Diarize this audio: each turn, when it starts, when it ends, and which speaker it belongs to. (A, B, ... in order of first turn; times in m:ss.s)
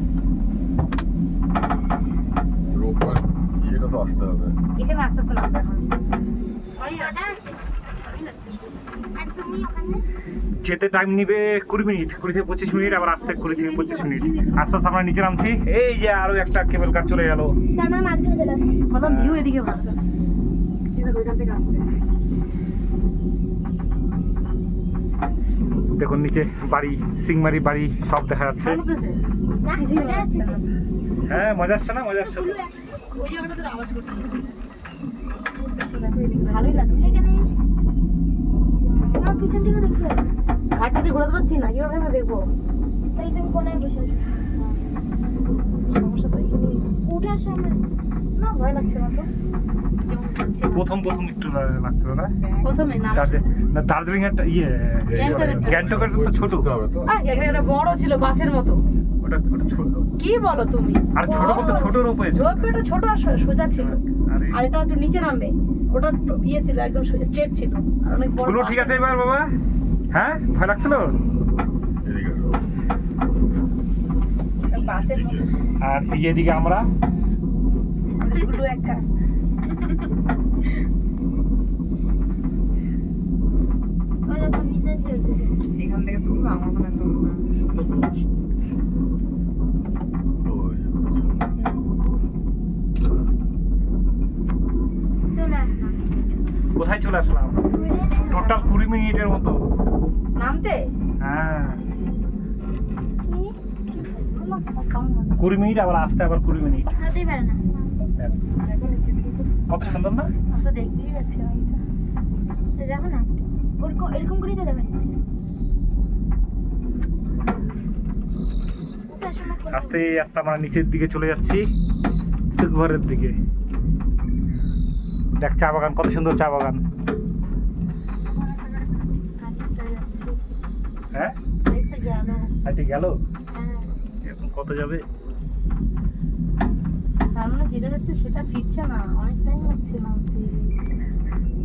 0:02.8-0:04.5 A
0:04.8-0:05.9 B
0:06.8-0:07.4 B
0:07.0-0:07.7 C
0:08.0-0:08.8 B
0:09.2-0:10.0 C
0:10.6-0:17.6 D
0:12.6-0:14.8 B
0:17.8-0:18.8 C
0:18.9-0:20.0 B
0:19.0-0:19.5 D
0:20.9-0:21.8 B
0:25.9-0:28.8 D
0:28.6-0:29.2 B
0:29.6-0:30.6 C
0:29.8-0:30.6 B
0:31.3-0:32.6 D
0:32.2-0:33.1 C
0:33.2-0:34.7 B
0:35.8-0:37.1 B
0:36.6-0:37.5 C
0:39.2-0:40.3 C
0:40.7-0:42.5 B
0:43.2-0:44.5 C
0:45.9-0:47.0 B
0:47.0-0:47.8 C
0:48.4-0:49.3 B
0:50.0-0:51.0 B
0:50.7-0:52.3 D
0:52.6-0:53.4 B
0:53.0-0:56.8 D
0:55.1-0:55.9 B
0:57.0-0:58.8 B
0:59.2-1:00.1 D
1:00.2-1:09.3 B
1:01.1-1:02.6 D
1:01.3-1:02.0 C
1:03.8-1:04.6 D
1:08.4-1:09.5 D
1:10.1-1:11.2 D
1:12.1-1:12.4 A
1:14.7-1:15.6 B
1:15.8-1:16.9 D
1:18.2-1:19.0 B
1:24.3-1:25.7 C
1:25.8-1:27.4 B
1:27.7-1:28.2 C
1:35.3-1:36.0 C
1:36.8-1:37.7 D
1:37.8-1:38.4 C
1:37.8-1:38.7 B
1:38.2-1:39.7 D
1:40.4-1:40.9 B
1:41.2-1:41.8 D
1:43.2-1:44.4 C
1:44.3-1:45.4 B
1:45.4-1:46.9 D
1:47.0-1:48.1 C
1:48.5-1:49.5 B
1:49.7-1:50.3 D
1:50.5-1:51.8 B
1:52.8-1:55.2 C
1:59.1-2:00.0 C
1:59.7-2:01.7 D
2:02.6-2:03.4 D
2:05.4-2:06.8 D
2:09.4-2:10.4 B
2:11.6-2:12.5 B
2:12.6-2:13.2 D
2:13.5-2:13.9 B
2:14.2-2:15.0 D
2:17.3-2:20.8 B